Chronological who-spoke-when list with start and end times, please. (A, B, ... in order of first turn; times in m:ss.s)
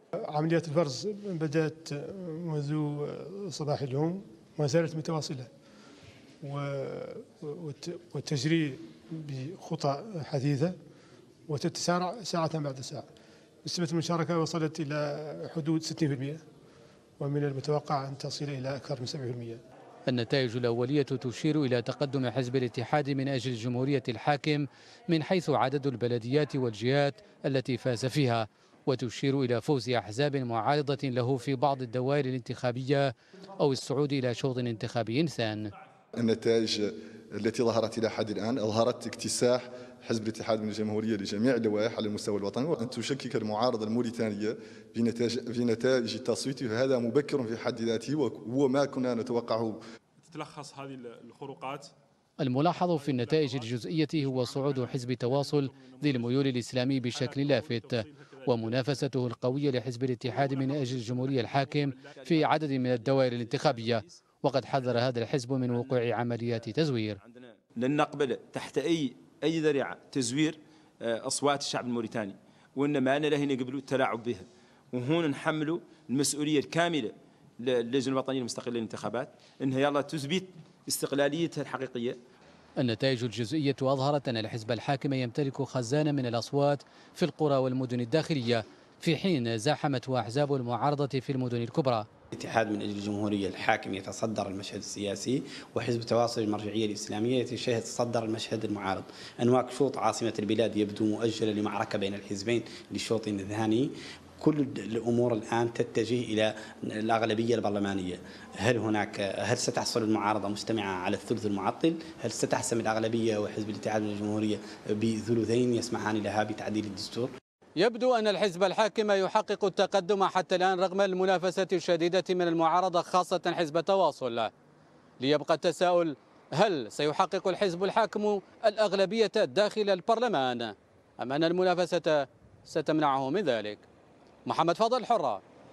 0:00.3-0:05.5 A
0:06.4-0:10.7 A
0:11.5-0:13.0 A
0:13.6-0:16.4 A
0:17.2-0:19.6 A
0:20.1-0:35.7 B
0:36.2-0:49.8 C
0:50.3-0:51.9 D
0:52.4-1:07.2 B
0:52.9-0:56.5 D
0:57.1-0:59.1 D
1:00.2-1:02.5 D
1:02.2-1:04.2 E
1:07.2-1:22.2 E
1:22.8-1:32.1 B
1:32.4-1:57.3 F
1:57.8-2:04.5 B
2:05.2-2:13.8 B
2:14.4-2:15.4 B